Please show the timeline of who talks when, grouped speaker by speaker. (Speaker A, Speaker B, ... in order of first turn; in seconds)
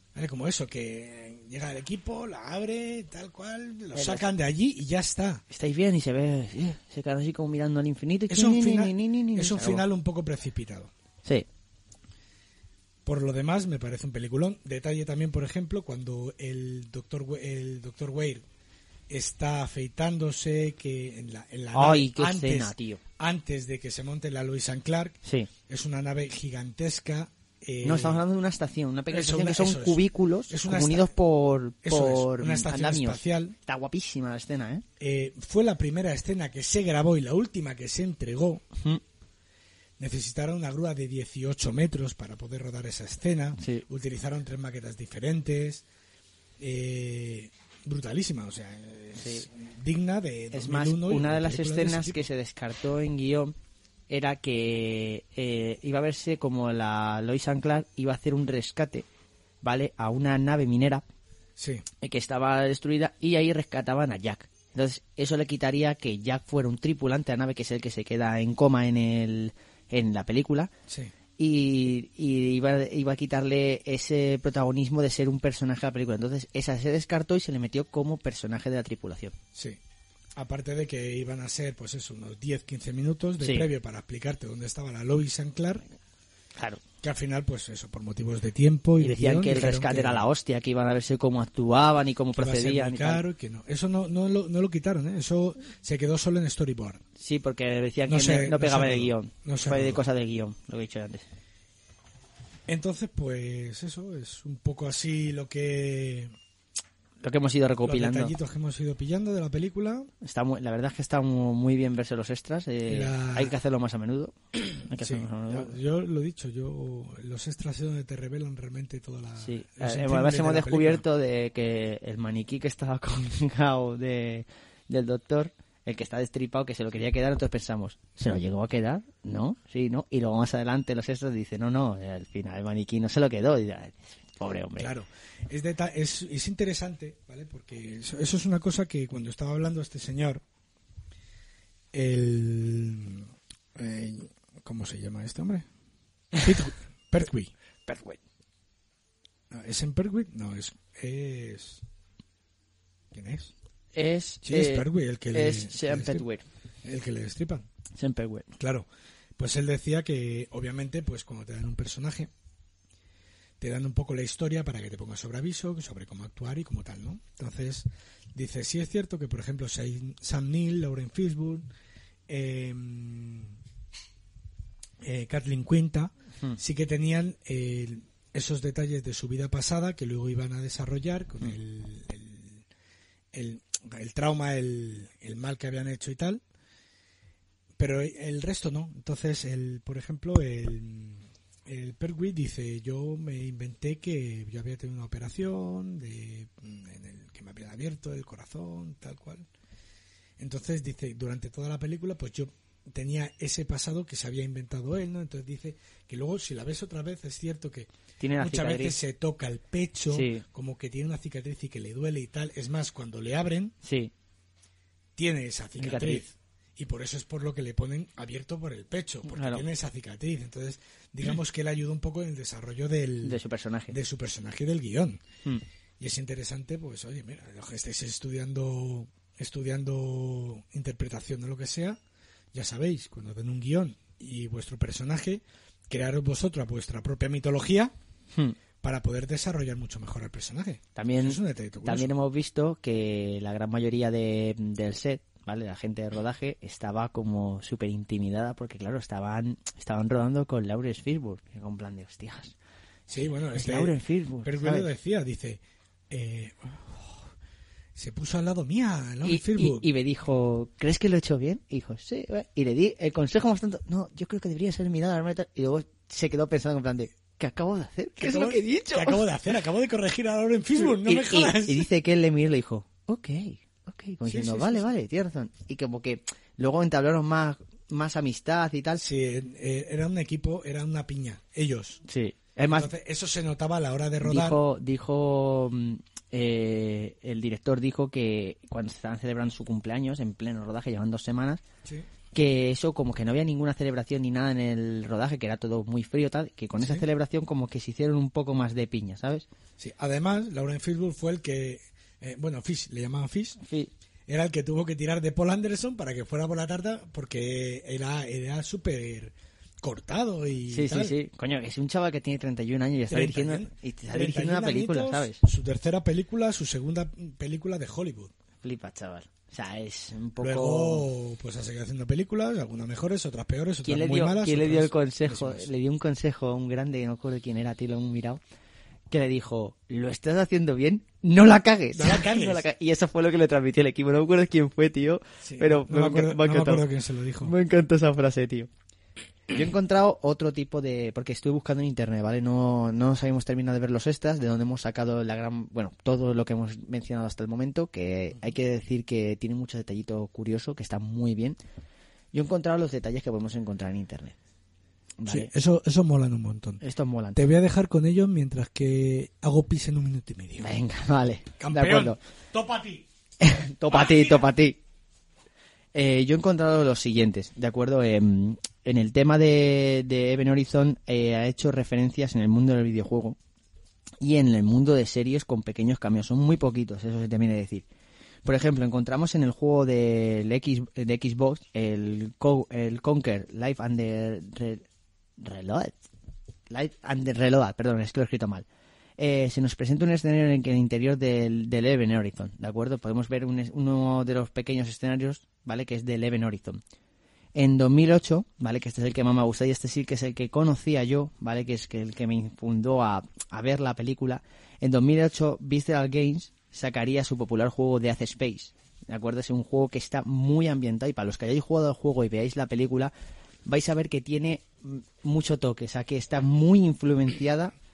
Speaker A: 0.1-5.4, 8.3-10.9, 13.1-18.4, 19.1-28.2, 29.1-31.1, 31.8-33.5, 35.0-38.7, 40.0-45.8, 46.6-52.3, 61.6-61.9, 79.5-79.8, 80.4-85.8, 87.0-90.3, 92.4-97.0, 98.1-100.0, 102.7-106.3, 107.8-110.1, 112.9-113.5, 115.0-121.0, 134.8-140.4, 141.9-145.7, 146.4-147.5, 149.5-151.8, 153.1-153.5, 154.4-156.2, 156.8-157.7, 158.6-158.9, 159.4-162.3, 163.6-171.7, 172.3-173.6, 175.0-182.6, 183.3-186.4, 187.8-199.5, 200.4-213.8, 215.2-225.2, 226.0-232.0, 232.5-237.9, 238.8-242.1, 253.1-257.3, 257.9-259.9, 268.2-271.9, 274.2-274.9, 279.0-282.0, 282.6-284.6, 296.8-297.0, 299.8-303.6, 304.3-311.1, 313.1-318.3, 320.4-325.7, 331.9-332.6, 335.4-337.5, 355.3-356.8, 357.4-360.7, 361.6-363.1, 363.9-364.5
Speaker B: 3.9-4.2, 5.5-9.8, 21.7-23.0, 27.8-34.8, 43.6-43.8, 49.2-49.5, 50.5-53.5, 54.1-59.1, 59.6-61.0, 62.0-70.7, 71.4-79.3, 83.4-83.7, 86.6-86.8, 89.0-93.2, 97.2-101.2, 107.2-108.3, 110.2-115.8, 119.4-134.9, 147.9-148.2, 153.9-156.4, 158.0-158.5, 208.2-209.0, 210.1-210.4, 213.8-214.1, 215.8-216.2, 219.3-219.6, 223.2-224.0, 241.0-252.5, 253.6-254.9, 259.2-269.2, 270.8-279.1, 282.1-282.9, 284.2-291.6, 292.3-299.5, 303.6-303.9, 310.7-315.4, 318.6-321.1, 323.8-328.4, 329.1-336.9, 337.4-338.7, 339.5-351.6, 352.3-354.4, 355.2-355.5, 356.8-357.4, 360.6-362.2, 363.4-364.8, 365.9-373.4, 374.2-377.9, 378.4-384.9, 385.4-386.0, 386.7-388.7, 389.2-396.8, 397.6-413.1, 413.7-417.7